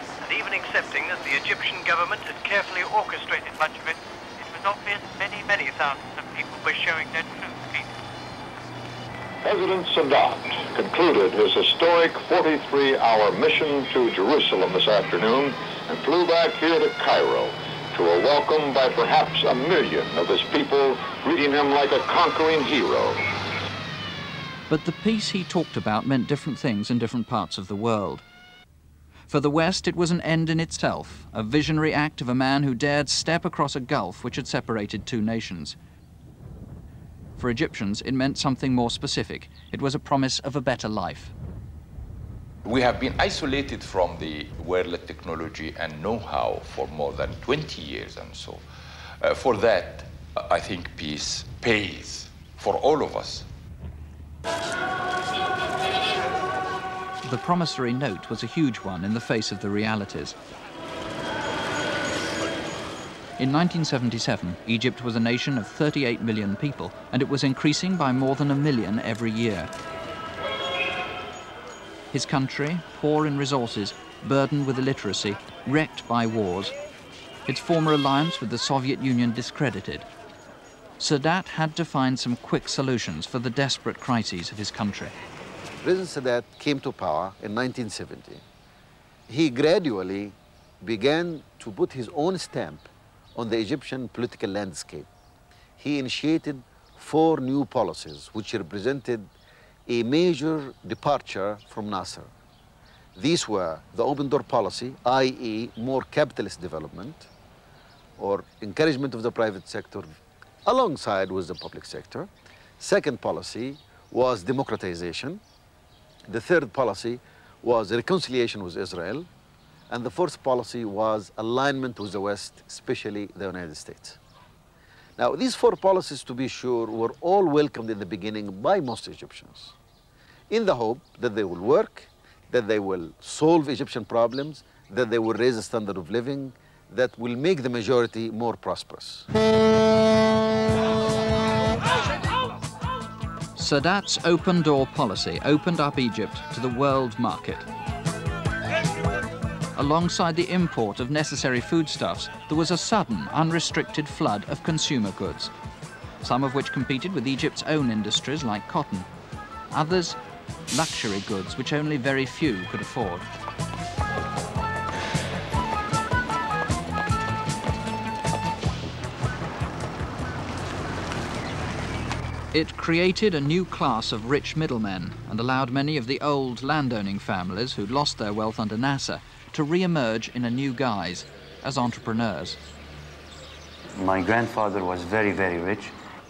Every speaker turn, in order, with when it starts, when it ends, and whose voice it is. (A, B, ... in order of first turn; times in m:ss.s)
0:00.2-0:07.9 A
0:09.4-0:23.3 B
0:24.7-0:28.2 C
0:29.3-0:35.8 C
0:37.4-0:41.3 C
0:42.6-0:48.6 D
0:49.2-0:53.5 D
0:57.2-1:00.4 C
1:03.4-1:09.7 C
1:12.1-1:16.7 C
1:17.5-1:20.1 C
1:21.0-1:25.1 C
1:25.8-1:28.4 E
1:29.3-1:35.1 E
1:35.8-1:39.3 E
1:39.9-1:42.3 E
1:43.2-1:47.3 E
1:48.2-1:55.4 E
1:56.3-1:59.3 E
1:59.9-2:04.2 E
2:05.2-2:09.7 E
2:10.5-2:19.2 E
2:23.6-2:27.7 C
2:29.8-2:35.5 C
2:36.2-2:39.1 C
2:39.7-2:40.2 C
2:40.7-2:43.3 C
2:52.5-3:02.6 C
3:04.0-3:06.0 F